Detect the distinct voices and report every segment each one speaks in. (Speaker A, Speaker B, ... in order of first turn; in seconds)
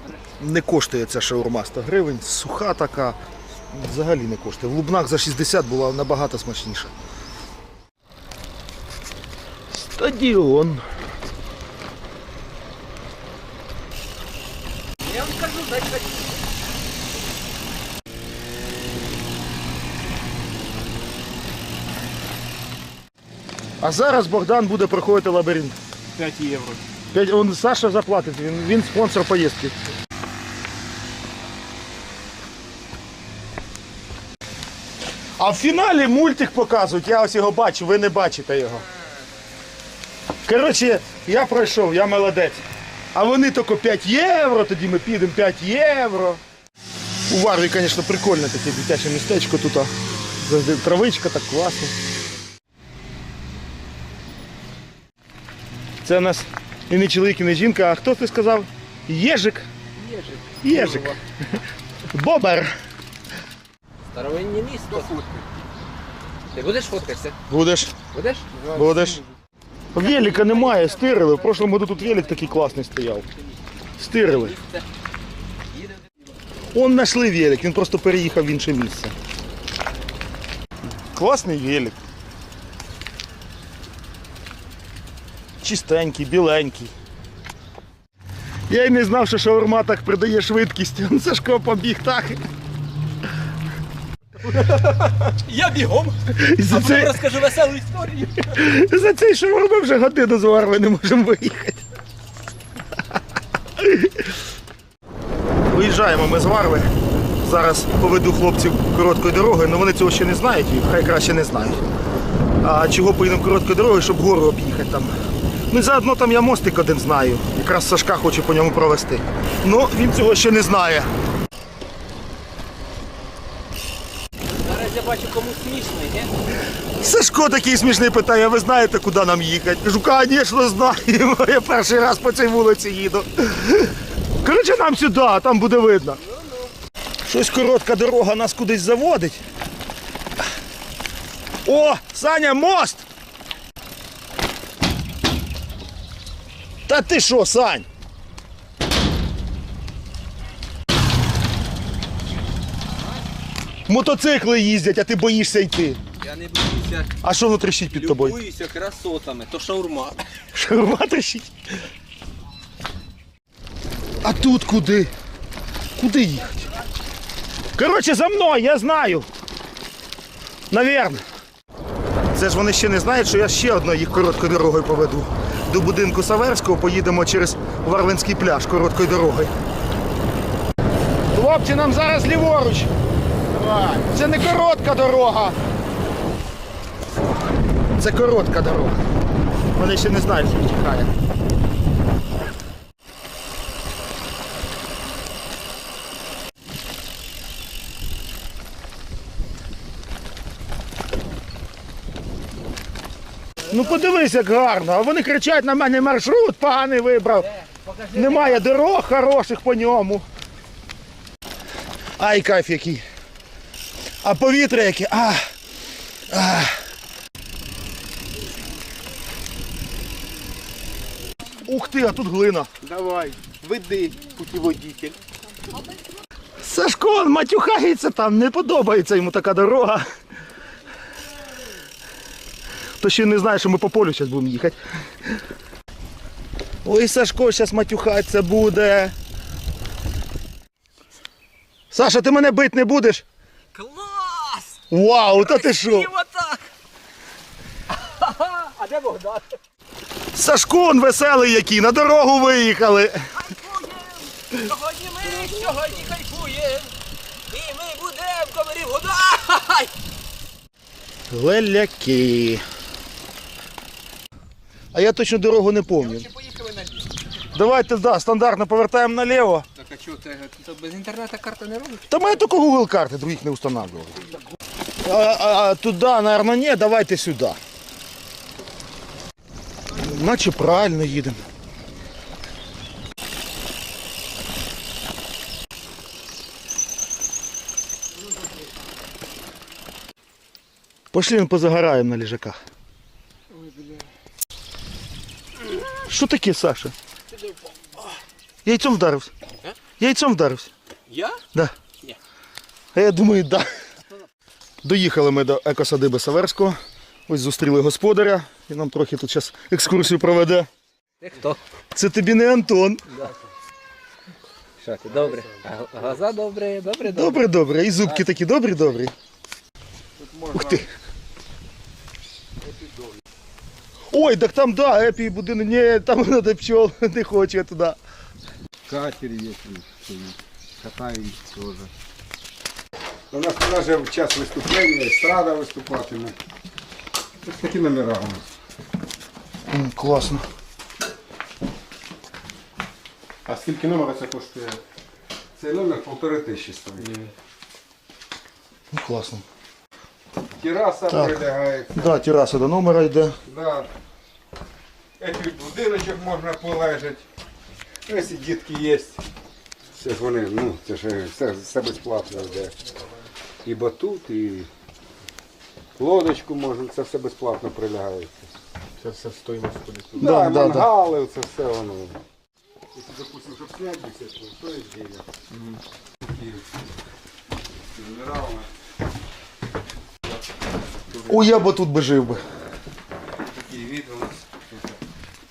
Speaker A: 0.4-3.2, 3.7-6.9, 9.7-10.8, 23.8-25.8, 27.1-29.7, 35.4-38.8, 40.5-46.4, 47.3-51.9, 56.0-59.7, 60.6-61.2, 62.1-62.7, 67.5-68.0, 68.7-69.2, 69.9-73.2, 74.0-74.5, 76.7-79.1, 81.1-82.0, 85.6-86.9, 88.7-92.4, 96.3-97.2, 98.5-101.8, 103.8-104.3, 105.7-111.8, 112.6-115.1, 115.7-121.1, 127.0-136.2, 137.2-139.4, 141.6-143.0, 146.9-147.9, 153.9-156.0, 157.2-158.4, 160.5-161.5, 164.2-165.1, 166.0-166.5, 167.7-169.3, 170.7-171.2, 172.3-179.5, 181.3-182.9, 184.0-185.6, 188.0-189.0, 189.7-191.1, 203.7-207.5, 208.1-210.2, 212.2-213.0, 214.2-215.4, 216.3-216.8, 221.6-222.7, 226.6-230.1, 233.0-234.8, 236.8-239.1, 241.9-243.2, 244.9-246.1, 250.3-253.3, 261.3-262.6, 264.9-266.2, 267.5-269.6, 272.1-274.2, 275.0-277.6, 280.0-281.4, 291.1-292.6, 296.1-296.9, 298.6-299.3, 300.0-300.7, 302.9-303.7, 304.8-310.7, 311.9-313.1, 317.1-319.1, 320.5-320.9, 324.1-328.0, 339.7-340.4, 348.9-349.4, 351.9-353.4, 370.2-370.9, 381.3-382.4
Speaker B: 15.0-16.4, 64.1-65.1, 66.5-67.4, 68.1-68.5, 70.0-72.7, 74.2-74.8, 94.7-98.6, 124.6-126.3, 156.2-157.2, 157.9-160.2, 207.5-208.6, 243.7-244.8, 245.3-246.7, 248.0-249.4, 253.3-256.9, 257.5-259.9, 266.0-267.1, 269.8-272.3, 297.3-298.1, 301.1-301.4, 311.2-311.6, 314.8-317.4
Speaker C: 26.1-26.9, 60.1-61.1, 68.5-69.4, 183.5-184.0, 222.8-225.2, 293.6-294.0, 343.4-344.8, 347.0-347.3, 369.0-370.2
Speaker D: 64.9-65.5, 315.1-315.6, 320.2-320.9, 322.6-323.2, 328.9-331.9, 333.3-336.4, 337.4-338.4, 345.6-347.1, 350.5-351.9, 353.4-353.9, 355.2-357.2, 358.1-359.2, 359.9-362.7, 363.6-364.7, 366.0-368.5, 370.1-372.2, 372.9-375.2, 376.2-376.7, 377.8-378.7, 381.1-381.6, 383.4-385.0